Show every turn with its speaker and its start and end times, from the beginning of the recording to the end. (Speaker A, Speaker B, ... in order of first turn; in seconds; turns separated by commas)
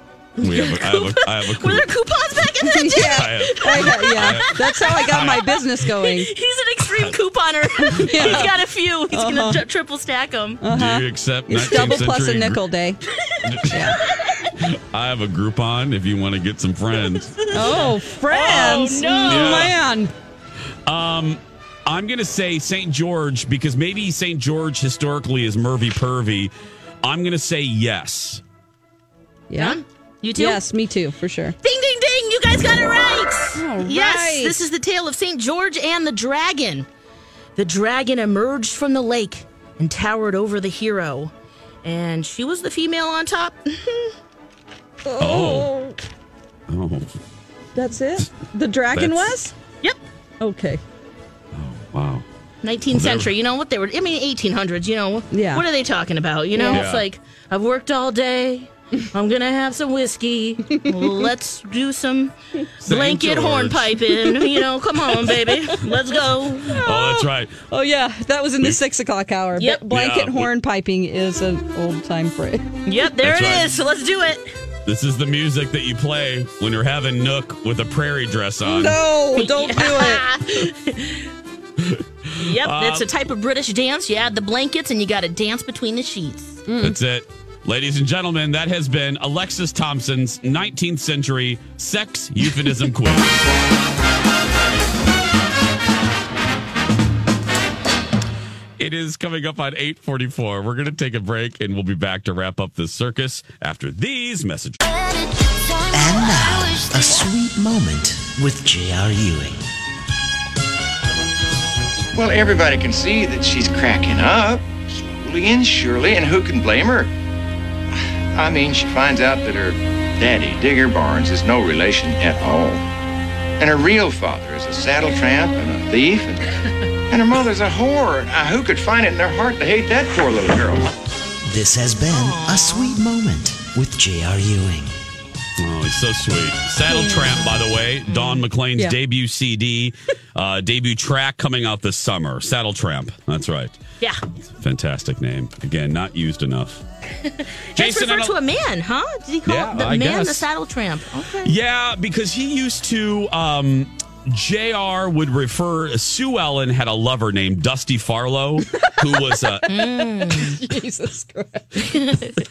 Speaker A: 0.4-10.6, Speaker B: 0.4-1.9, Speaker C: 2.6-6.3, Speaker B: 3.0-5.5, Speaker B: 6.9-7.2, Speaker C: 7.9-8.5, Speaker B: 7.9-8.5, Speaker C: 9.1-9.6, Speaker C: 10.6-13.0, Speaker B: 10.7-12.6, Speaker A: 13.3-14.5, Speaker B: 13.4-13.9, Speaker C: 13.7-14.0, Speaker B: 14.6-17.4, Speaker A: 17.1-19.7, Speaker C: 17.5-20.1, Speaker B: 19.2-19.7, Speaker B: 20.9-26.5, Speaker B: 27.0-28.4, Speaker C: 29.5-29.8, Speaker A: 29.6-30.6, Speaker C: 30.4-31.6, Speaker A: 31.6-36.9, Speaker C: 33.5-34.5, Speaker A: 37.5-41.3, Speaker A: 41.8-44.1, Speaker C: 45.0-46.0, Speaker B: 45.2-45.7, Speaker B: 46.7-47.1, Speaker C: 47.7-49.5, Speaker B: 48.9-49.4, Speaker C: 50.4-50.8, Speaker B: 51.5-52.2, Speaker A: 52.6-66.8, Speaker B: 52.9-53.3, Speaker C: 55.3-55.6, Speaker C: 56.5-56.8, Speaker B: 56.7-57.0, Speaker B: 62.8-64.0, Speaker C: 66.6-72.7, Speaker B: 66.8-67.6, Speaker B: 69.9-70.5, Speaker A: 72.9-74.5, Speaker B: 73.2-73.7, Speaker B: 74.9-79.0, Speaker C: 78.6-80.2, Speaker A: 79.4-81.3, Speaker B: 81.8-83.1, Speaker A: 82.4-86.6, Speaker C: 86.7-87.0, Speaker B: 86.8-93.5, Speaker B: 98.8-104.8, Speaker D: 105.9-109.6, Speaker E: 112.1-117.1, Speaker E: 118.4-122.8, Speaker E: 123.6-126.5, Speaker E: 127.1-130.9, Speaker D: 131.4-134.9, Speaker A: 132.1-132.9, Speaker B: 135.6-143.7, Speaker A: 136.9-137.4, Speaker A: 138.1-138.4, Speaker B: 144.5-146.8, Speaker A: 147.3-151.5, Speaker B: 147.8-148.4, Speaker B: 149.4-150.5, Speaker B: 151.4-159.8, Speaker C: 158.8-162.1, Speaker A: 159.7-160.6